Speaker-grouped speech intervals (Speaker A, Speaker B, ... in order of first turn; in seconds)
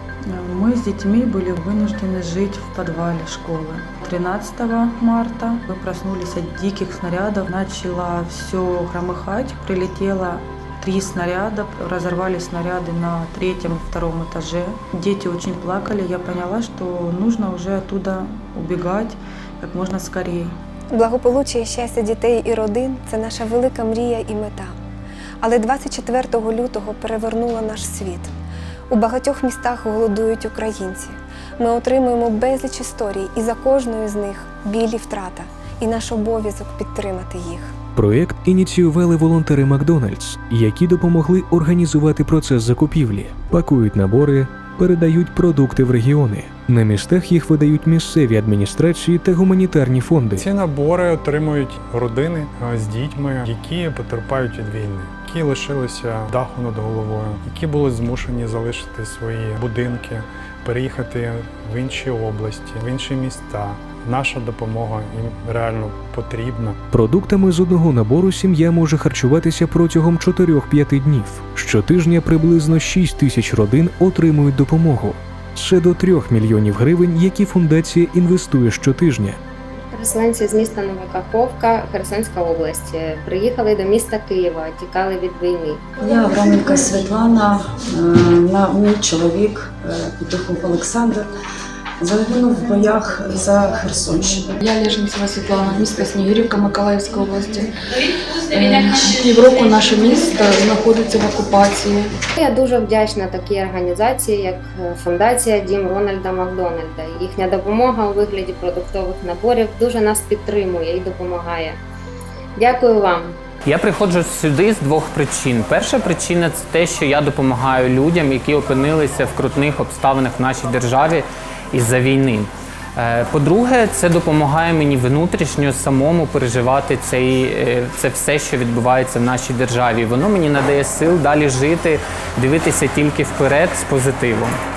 Speaker A: 0.3-20.6
Speaker B: 20.9-24.8, 25.4-28.3, 28.9-37.7
Speaker C: 38.0-50.5, 66.9-79.4
Speaker D: 50.4-66.8
Speaker E: 79.9-85.8, 102.4-111.8, 112.6-113.4
Speaker F: 86.0-91.3, 92.0-94.5
Speaker G: 94.6-97.7, 98.5-102.1
Speaker H: 113.7-134.6